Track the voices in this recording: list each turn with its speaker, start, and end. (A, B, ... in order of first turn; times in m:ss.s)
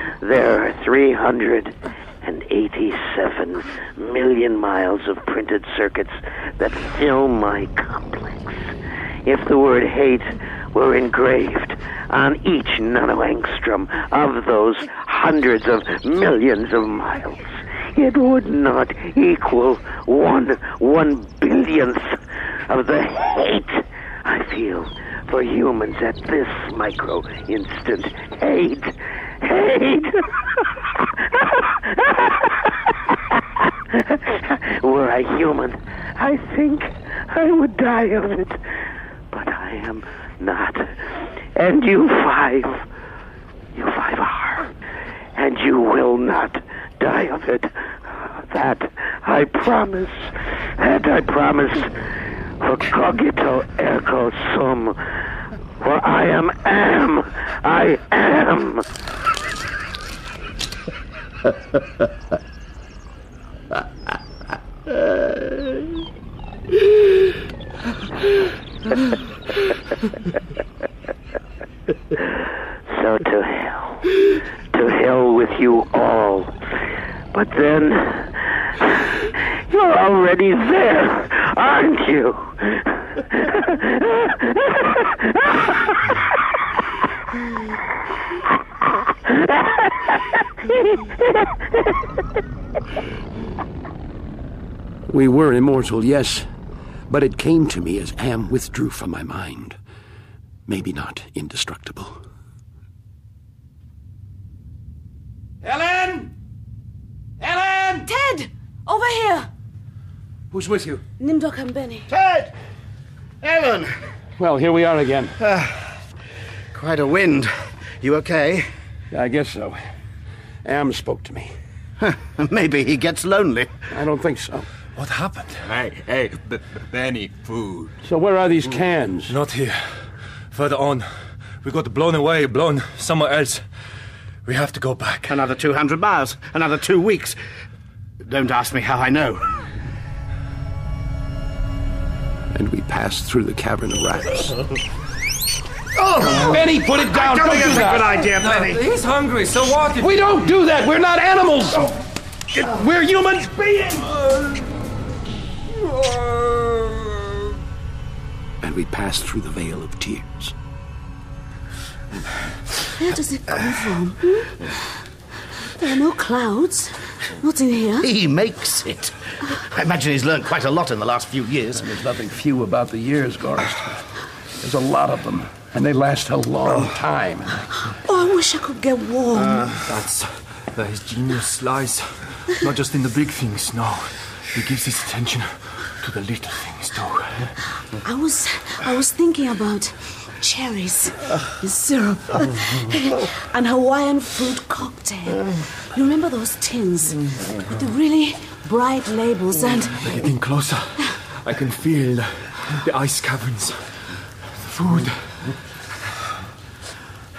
0:00.2-0:08.7 A
0:09.2-0:38.6 A
0:39.3-0:42.9 A
0:43.7-0:44.7 A
0:45.3-0:51.9 A
0:52.6-0:55.2 A
0:55.8-0:58.9 A
1:12.9-1:16.5 A
1:17.3-1:26.4 A
1:29.2-1:31.9 A
1:35.1-1:36.5 B
1:37.1-1:39.8 B
1:40.7-1:42.2 B
1:45.6-1:46.3 B
1:47.4-1:48.1 B
1:48.0-1:49.5 C
1:50.5-1:51.0 B
1:51.2-1:52.1 C
1:52.1-1:52.5 D
1:53.4-1:53.9 D
1:54.4-1:55.4 B
1:55.4-1:55.9 D
1:56.7-1:58.7 D
1:59.1-1:59.8 B
2:00.6-2:01.5 B
2:02.0-2:03.7 D
2:03.9-2:04.7 B
2:05.0-2:05.7 E
2:05.6-2:08.0 F
2:08.0-2:09.4 B
2:09.3-2:15.5 E
2:15.3-2:17.4 D
2:18.2-2:19.6 D
2:22.5-2:24.7 B
2:26.0-2:28.8 D
2:26.3-2:28.1 B
2:28.1-2:30.3 E
2:30.0-2:32.0 B
2:32.6-2:34.1 B
2:38.6-2:40.5 B
2:42.9-2:44.8 C
2:45.6-2:48.1 C
2:48.0-2:51.9 D
2:51.8-2:57.7 B
2:57.8-2:59.7 C
2:59.8-3:07.6 E
3:07.9-3:20.0 C
3:20.0-3:25.6 E